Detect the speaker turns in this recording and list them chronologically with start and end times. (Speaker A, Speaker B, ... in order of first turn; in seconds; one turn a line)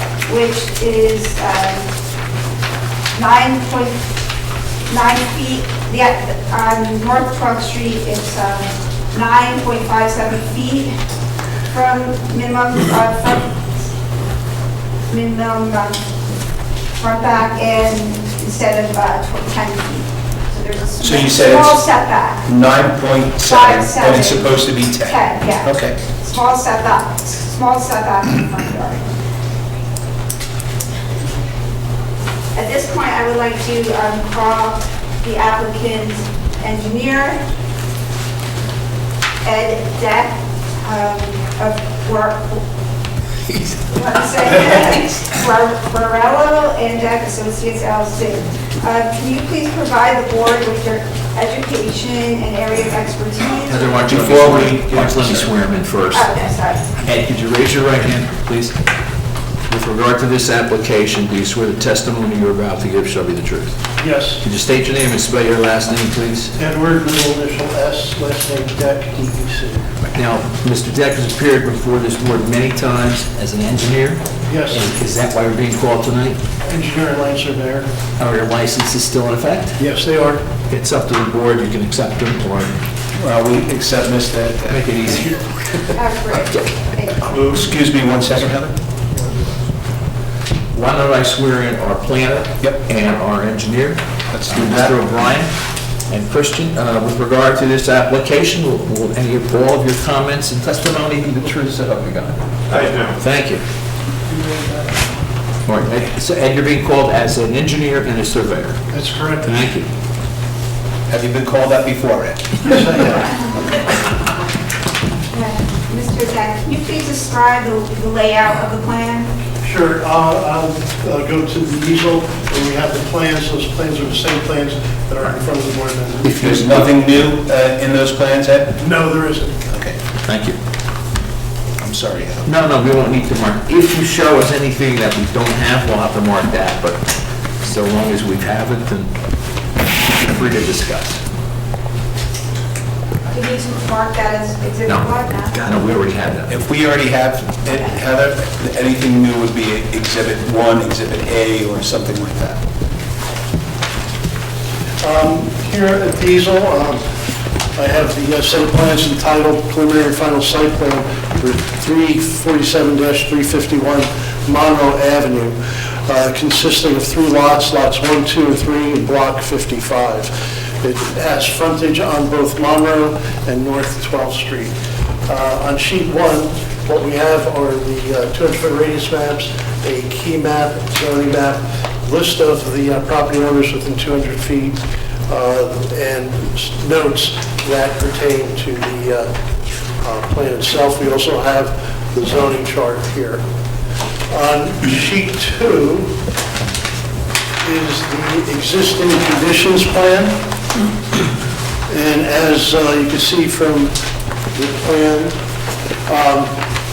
Speaker A: 0.2-1.8
Speaker A: 3.1-4.0
Speaker A: 4.9-10.9
Speaker A: 11.7-13.6
Speaker A: 15.1-16.0
Speaker A: 17.0-22.4
Speaker B: 21.0-21.8
Speaker B: 22.4-25.9
Speaker A: 23.4-29.0
Speaker A: 32.5-37.4
Speaker A: 39.4-42.6
Speaker A: 43.9-54.0
Speaker C: 53.7-56.3
Speaker B: 54.1-55.5
Speaker A: 56.1-56.9
Speaker C: 57.0-58.7
Speaker C: 59.7-63.7
Speaker D: 64.0-64.4
Speaker C: 64.4-66.5
Speaker D: 66.6-69.9
Speaker C: 70.1-76.4
Speaker D: 74.5-74.8
Speaker D: 76.6-77.9
Speaker C: 78.2-79.8
Speaker D: 79.8-80.4
Speaker C: 80.7-82.8
Speaker B: 83.1-84.9
Speaker C: 84.7-85.8
Speaker A: 85.9-87.3
Speaker B: 87.3-88.8
Speaker C: 90.7-95.5
Speaker B: 94.3-94.9
Speaker C: 96.1-103.6
Speaker D: 104.3-105.0
Speaker C: 105.7-108.8
Speaker D: 108.9-109.5
Speaker C: 109.4-109.9
Speaker B: 111.1-112.7
Speaker D: 112.6-113.4
Speaker A: 115.3-119.3
Speaker D: 119.6-126.8
Speaker B: 126.2-128.8
Speaker D: 128.8-129.6
Speaker B: 129.7-130.0
Speaker C: 130.2-130.6
Speaker B: 131.8-132.5
Speaker C: 132.4-137.0
Speaker C: 137.6-139.1
Speaker C: 140.1-141.2
Speaker A: 143.3-145.5
Speaker C: 144.8-146.5
Speaker B: 146.5-152.6
Speaker D: 155.0-157.0
Speaker D: 157.8-174.7
Speaker D: 175.3-189.3
Speaker D: 190.0-193.4
Speaker D: 194.3-196.1
Speaker D: 197.6-200.4
Speaker D: 201.9-203.9
Speaker D: 204.5-205.3
Speaker D: 206.1-206.5